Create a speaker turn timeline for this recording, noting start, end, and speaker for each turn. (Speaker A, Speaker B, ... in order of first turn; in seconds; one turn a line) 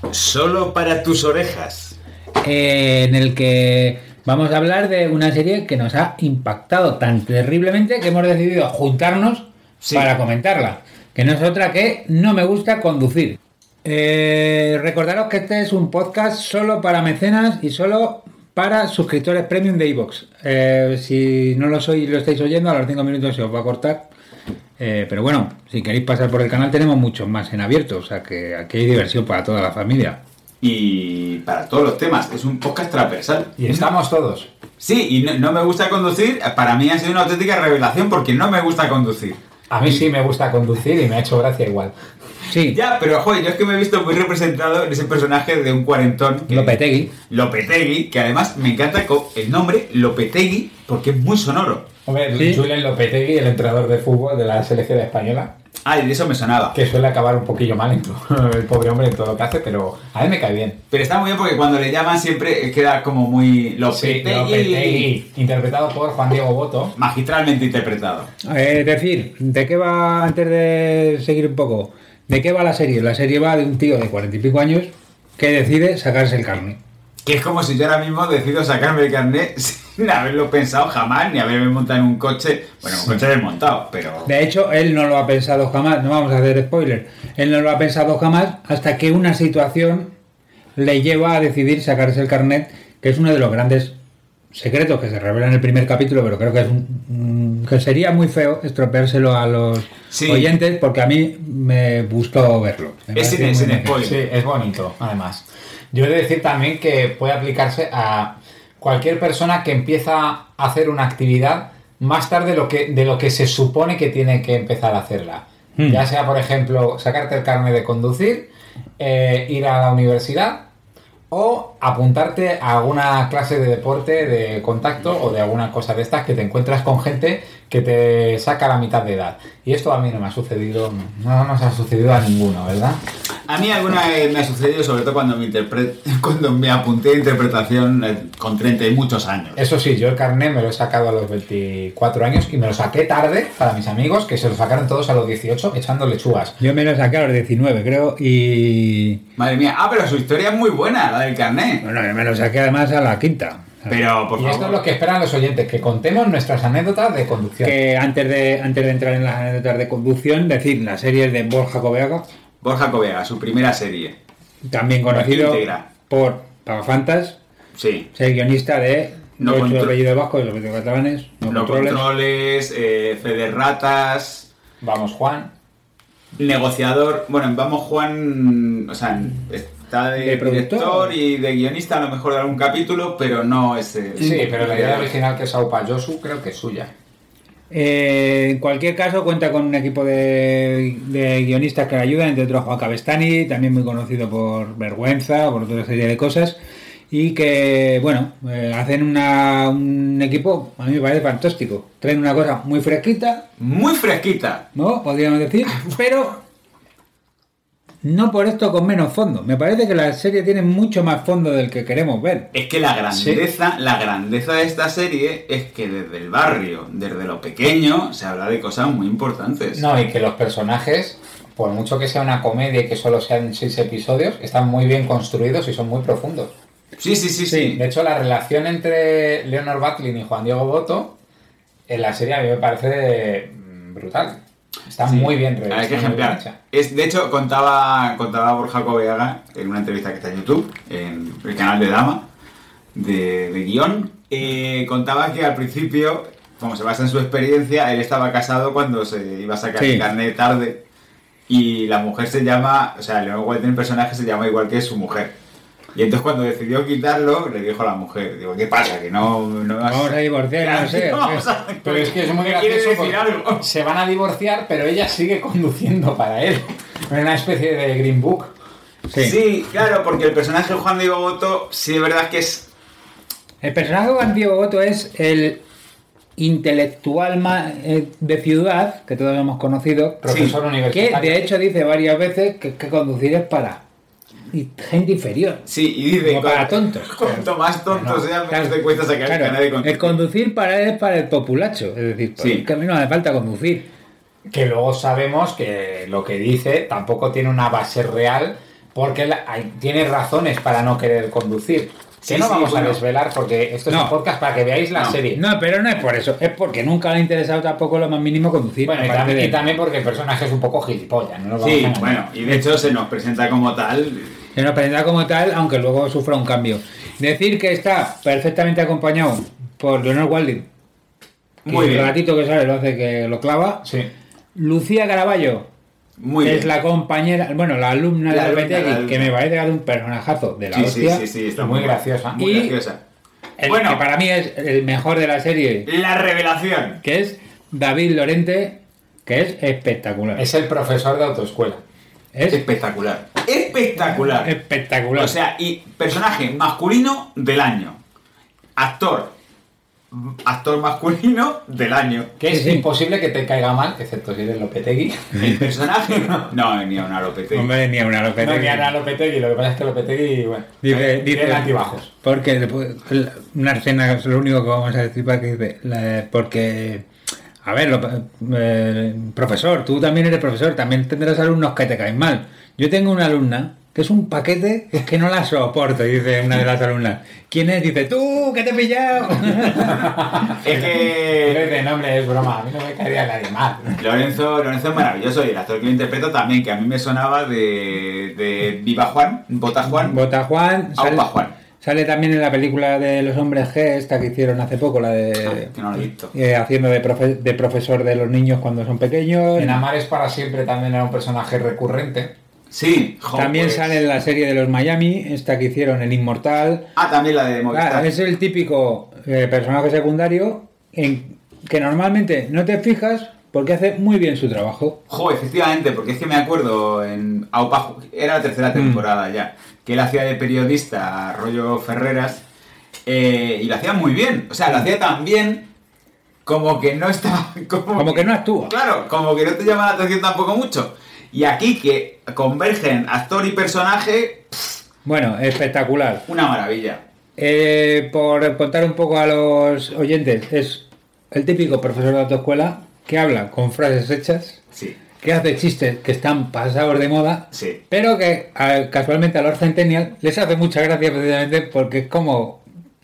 Speaker A: 0.1-2.0
Speaker B: 2.4-24.1
Speaker A: 9.8-10.1
Speaker B: 24.8-30.2
Speaker A: 30.6-33.9
Speaker C: 33.6-34.5
Speaker A: 34.8-39.4
Speaker C: 39.7-41.9
Speaker B: 42.5-42.8
Speaker A: 42.7-51.9
Speaker B: 46.5-47.1
Speaker C: 52.1-55.5
Speaker B: 52.4-52.6
Speaker A: 55.9-56.8
Speaker C: 56.7-60.8
Speaker A: 60.9-65.1
Speaker C: 63.9-66.9
Speaker A: 67.0-68.3
Speaker B: 68.4-76.8
Speaker A: 77.3-84.3
Speaker B: 84.2-90.1
Speaker B: 90.8-94.0
Speaker B: 94.5-104.1
Speaker A: 100.1-100.5
Speaker A: 103.2-104.2
Speaker C: 104.0-120.7
Speaker B: 115.8-116.0
Speaker C: 121.3-133.0
Speaker A: 133.5-139.6
Speaker C: 139.6-146.6
Speaker B: 146.6-149.2
Speaker A: 149.4-151.8
Speaker B: 151.8-154.0
Speaker A: 153.9-154.8
Speaker C: 154.4-157.8
Speaker B: 157.6-162.2
Speaker A: 162.6-164.2
Speaker B: 164.6-167.4
Speaker A: 165.1-165.8
Speaker A: 167.8-168.1
Speaker B: 168.1-172.1
Speaker A: 169.4-170.0
Speaker A: 171.5-174.5
Speaker C: 174.8-175.5
Speaker A: 176.4-185.1
Speaker B: 180.2-181.1
Speaker C: 184.2-186.9
Speaker B: 187.7-196.6
Speaker B: 197.1-203.4
Speaker A: 203.6-204.7
Speaker B: 204.7-206.4
Speaker B: 208.0-212.5
Speaker A: 212.5-219.8
Speaker C: 213.1-213.4
Speaker C: 219.7-226.5
Speaker A: 227.0-227.8
Speaker B: 227.5-227.8
Speaker C: 227.7-231.2
Speaker C: 231.9-236.6
Speaker A: 235.0-242.3
Speaker A: 242.9-250.8
Speaker B: 249.8-250.1
Speaker A: 251.5-255.3
Speaker A: 255.9-263.7
Speaker B: 259.8-261.5
Speaker C: 261.8-268.5
Speaker B: 269.1-269.4
Speaker A: 269.2-272.7
Speaker B: 273.6-275.6
Speaker B: 276.4-280.3
Speaker C: 280.2-281.5
Speaker A: 280.3-280.6
Speaker B: 280.9-283.8
Speaker B: 284.5-285.6
Speaker A: 285.7-290.2
Speaker B: 286.2-293.9
Speaker A: 292.4-292.7
Speaker C: 294.5-305.4
Speaker A: 302.2-303.0
Speaker B: 303.9-304.1
Speaker B: 305.3-309.6
Speaker C: 308.8-312.2
Speaker A: 311.6-314.4
Speaker B: 314.5-320.7
Speaker B: 321.6-323.9
Speaker A: 321.7-322.2
Speaker C: 323.8-324.1
Speaker B: 324.6-325.7
Speaker A: 326.2-326.7
Speaker B: 326.4-331.3
Speaker A: 328.3-329.4
Speaker A: 330.7-333.0
Speaker C: 331.6-332.4
Speaker B: 332.4-332.8
Speaker B: 333.6-335.9
Speaker A: 333.6-334.0
Speaker A: 335.9-337.0
Speaker B: 337.0-340.5
Speaker C: 340.4-341.8
Speaker B: 342.3-342.6
Speaker A: 342.5-344.5
Speaker B: 344.0-345.4
Speaker A: 345.1-348.0
Speaker A: 348.8-349.4
Speaker A: 350.1-352.3
Speaker C: 352.4-356.5
Speaker B: 352.5-352.9
Speaker A: 355.4-357.7
Speaker B: 357.5-358.9
Speaker C: 358.4-362.1
Speaker B: 360.8-367.1
Speaker B: 367.6-380.5
Speaker C: 379.7-384.0
Speaker A: 380.6-381.8
Speaker A: 384.0-390.2
Speaker B: 390.0-391.3
Speaker A: 391.0-391.5
Speaker B: 391.8-399.8
Speaker A: 395.4-396.3
Speaker C: 399.6-402.3
Speaker A: 402.7-404.0
Speaker B: 403.3-406.9
Speaker A: 406.9-408.1
Speaker B: 407.7-415.0
Speaker A: 415.1-422.4
Speaker B: 418.7-419.0
Speaker A: 423.1-425.7
Speaker A: 426.4-434.8
Speaker B: 428.0-428.7
Speaker B: 435.1-436.2
Speaker A: 436.3-437.0
Speaker B: 437.4-444.6
Speaker B: 445.2-452.6
Speaker A: 447.5-447.8